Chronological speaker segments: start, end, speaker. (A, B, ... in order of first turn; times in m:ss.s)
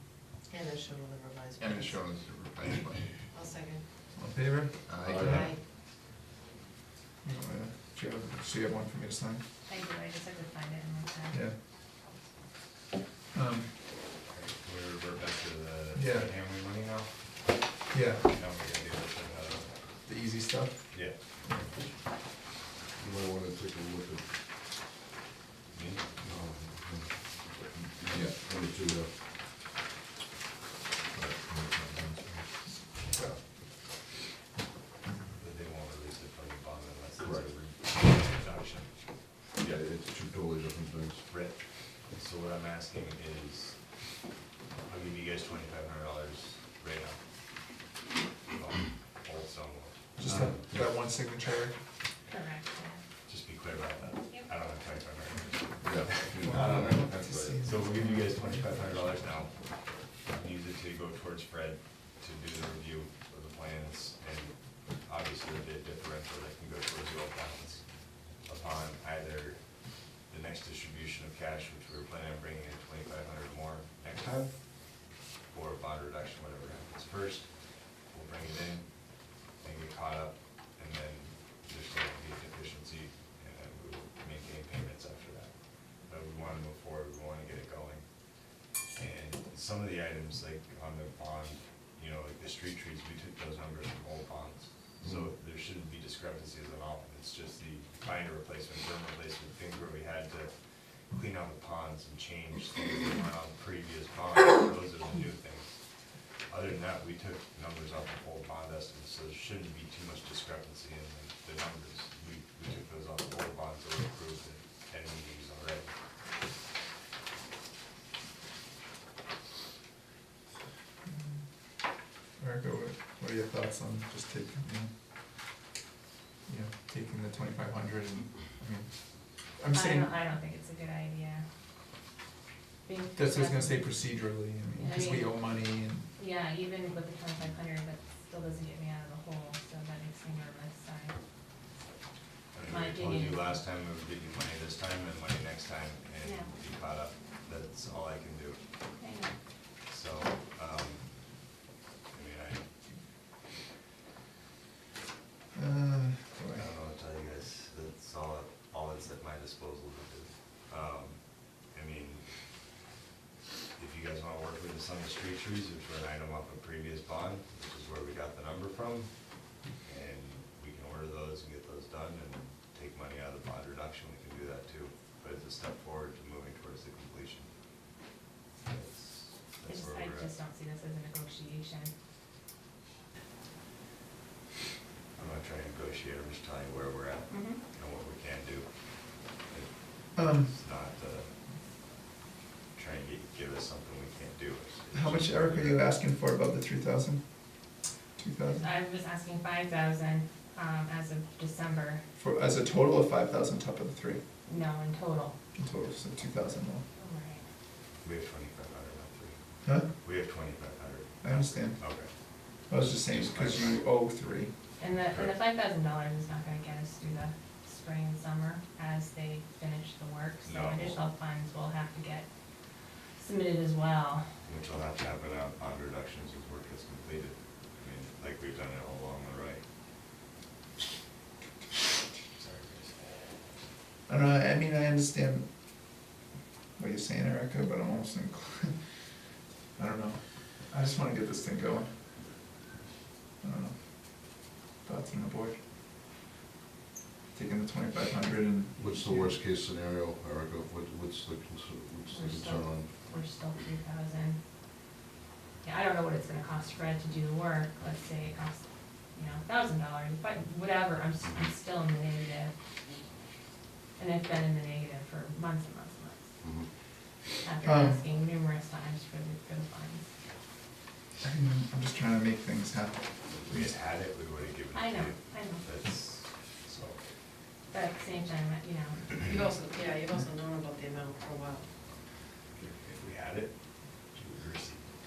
0:00.5-0:02.0 A
0:01.6-0:03.3 B
0:03.3-0:03.8 A
0:04.2-0:05.5 C
0:04.9-0:05.4 B
0:05.1-0:05.5 D
0:05.3-0:05.6 A
0:07.2-0:09.4 C
0:09.7-0:11.4 E
0:13.3-0:13.7 C
0:14.2-0:20.0 F
0:15.9-0:16.3 C
0:17.9-0:18.3 C
0:20.0-0:21.2 C
0:20.9-0:21.7 F
0:22.9-0:24.3 D
0:25.7-0:26.1 F
0:26.2-0:29.2 D
0:31.1-0:32.5 D
0:35.4-0:39.1 F
0:37.2-0:37.5 D
0:39.6-0:41.3 D
0:41.2-0:44.2 F
0:44.8-0:47.2 F
0:48.5-0:50.7 F
0:50.2-0:51.8 C
0:50.3-0:50.6 D
0:52.3-0:53.0 E
0:53.3-1:55.9 F
0:55.8-0:57.7 D
0:56.4-0:58.8 C
2:01.1-2:01.4 C
2:02.4-2:04.9 C
2:06.5-2:08.9 C
2:09.6-2:10.1 C
2:09.7-2:11.4 E
2:12.8-2:14.0 E
2:13.2-2:16.1 C
2:14.8-2:15.3 E
2:16.2-2:21.2 E
2:22.5-2:28.7 F
2:22.7-2:23.6 E
2:26.2-2:26.5 E
2:29.0-2:29.4 E
2:29.9-2:31.5 F
2:32.1-2:32.7 F
2:35.5-2:36.7 C
2:36.5-2:42.5 F
2:43.8-2:57.5 F
2:58.6-3:00.3 F
2:59.6-3:01.9 E
3:05.2-3:11.3 F
3:07.3-3:07.6 E
3:10.2-3:10.5 C
3:12.7-3:15.9 F
3:14.9-3:17.2 C
3:18.2-3:18.7 C
3:18.5-3:22.0 E
3:22.2-3:24.2 C
3:24.4-3:25.4 E
3:25.6-3:26.8 C
3:27.0-3:27.4 E
3:28.0-3:32.1 F
3:29.6-3:29.9 C
3:31.2-3:31.9 C
3:32.7-3:33.9 F
3:32.7-3:34.5 C
3:34.8-3:42.2 E
3:35.1-3:35.4 F
3:40.4-3:41.0 F
3:43.2-3:44.3 E
3:44.4-3:49.6 F
3:52.4-3:53.5 F
3:54.1-3:55.5 C
3:56.8-3:58.8 C
3:59.8-4:02.2 C
4:03.4-4:05.6 C
4:07.3-4:09.4 C
4:08.8-4:12.9 D
4:12.1-4:14.4 E
4:15.6-4:22.6 E
4:21.2-4:21.5 D
4:24.0-4:26.3 E
4:26.4-4:26.7 D
4:27.4-4:30.1 E
4:27.6-4:28.0 C
4:31.2-4:33.6 C
4:33.2-4:37.0 F
4:34.7-4:35.7 E
4:37.7-4:39.3 E
4:39.2-4:41.7 A
4:42.6-4:44.9 F